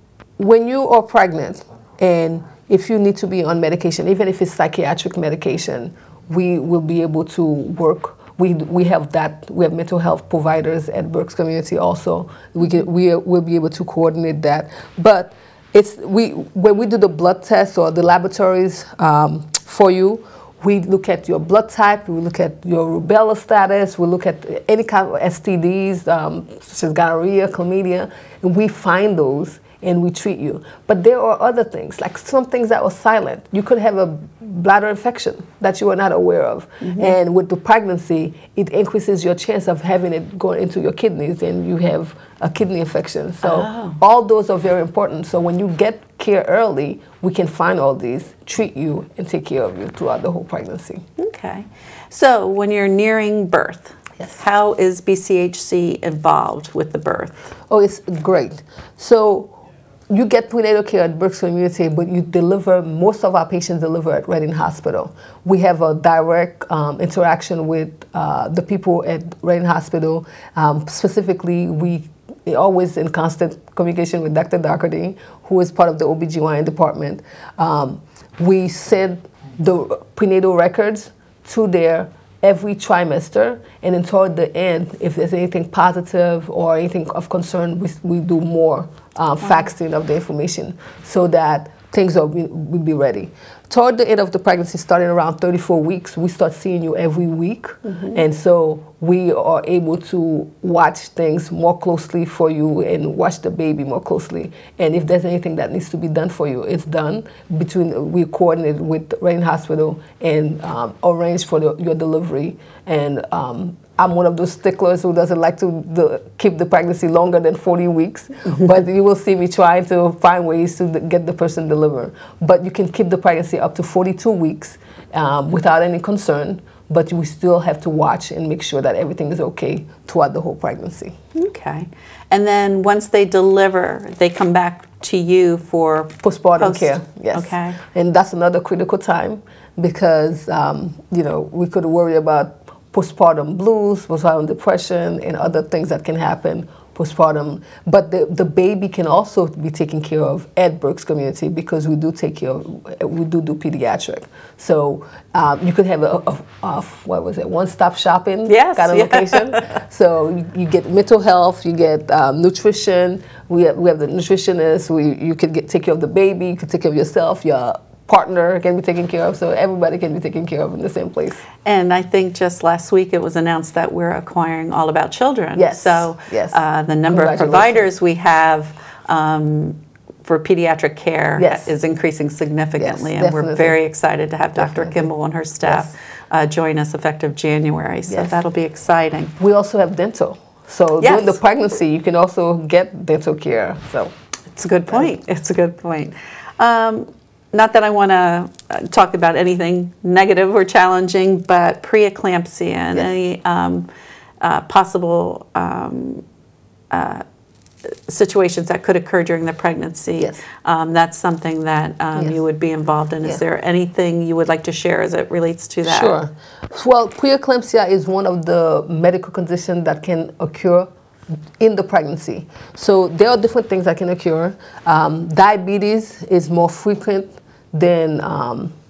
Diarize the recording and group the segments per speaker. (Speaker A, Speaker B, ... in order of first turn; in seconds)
Speaker A: 0.4-51.0, 57.7-59.6, 60.1-131.2, 136.2-171.4, 175.5-177.9, 181.4-181.7, 182.8-183.8, 184.6-185.1, 185.6-185.9, 188.1-188.4, 189.4-194.1, 215.8-220.9, 221.6-228.7
Speaker B: 36.8-37.1, 43.4-44.0, 51.2-57.3, 97.8-98.2, 131.3-137.8, 158.5-159.8, 171.6-189.3, 191.0-191.4, 194.5-203.9, 204.4-206.2, 206.9-207.2, 208.1-216.2